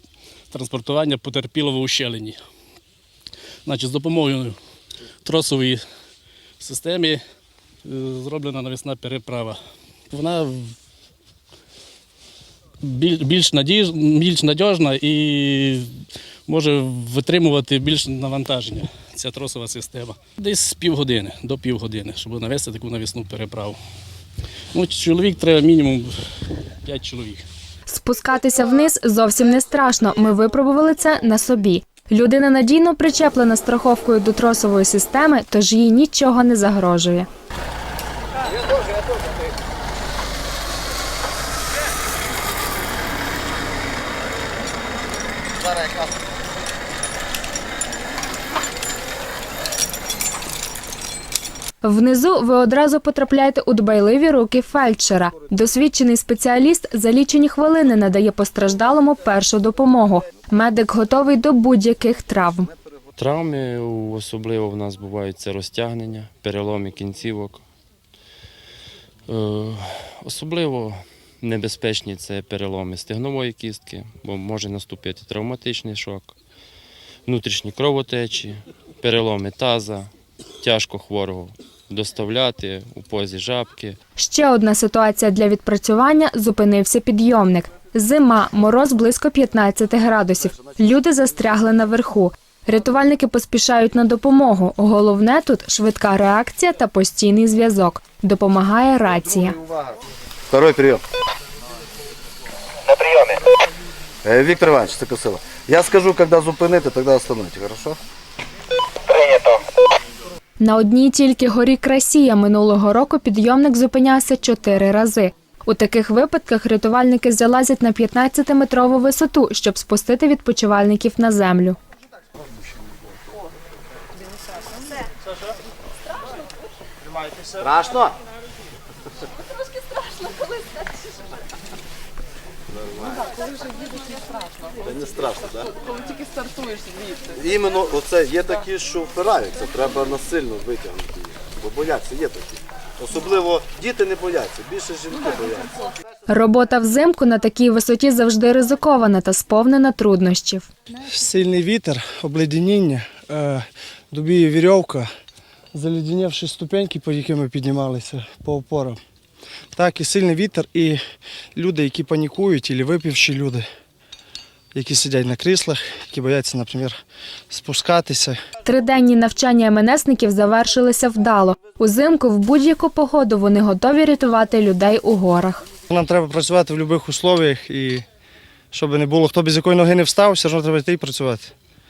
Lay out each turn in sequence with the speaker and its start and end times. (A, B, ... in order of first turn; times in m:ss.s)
0:00.5-0:02.4 A
0:03.6-0:04.6 A
0:05.2-0:05.8 A
0:06.6-0:07.2 A
0:07.8-0:09.6 A
0:10.1-0:10.8 A
0:12.8-0:23.8 A
0:24.7-0:26.1 A
0:26.8-0:27.4 A
0:27.9-0:37.3 B
0:51.8-1:02.7 B
1:03.2-1:07.6 C
1:09.3-1:16.3 C
1:17.2-1:24.0 C
1:24.2-1:39.6 B
1:39.3-1:40.0 D
1:40.5-1:41.0 D
1:42.9-1:43.4 D
1:44.2-1:48.0 D
1:49.3-1:49.5 D
1:50.6-2:01.8 B
2:07.6-2:08.2 D
2:12.7-2:13.3 D
2:14.8-2:15.7 D
2:17.3-2:25.7 D
2:26.3-2:30.7 B
2:31.0-2:35.1 E
2:35.7-2:39.0 E
2:39.7-2:41.0 E
2:41.5-2:43.6 E
2:44.7-2:48.4 E
2:48.6-2:55.6 B
2:55.9-2:58.0 E
2:58.7-3:01.5 E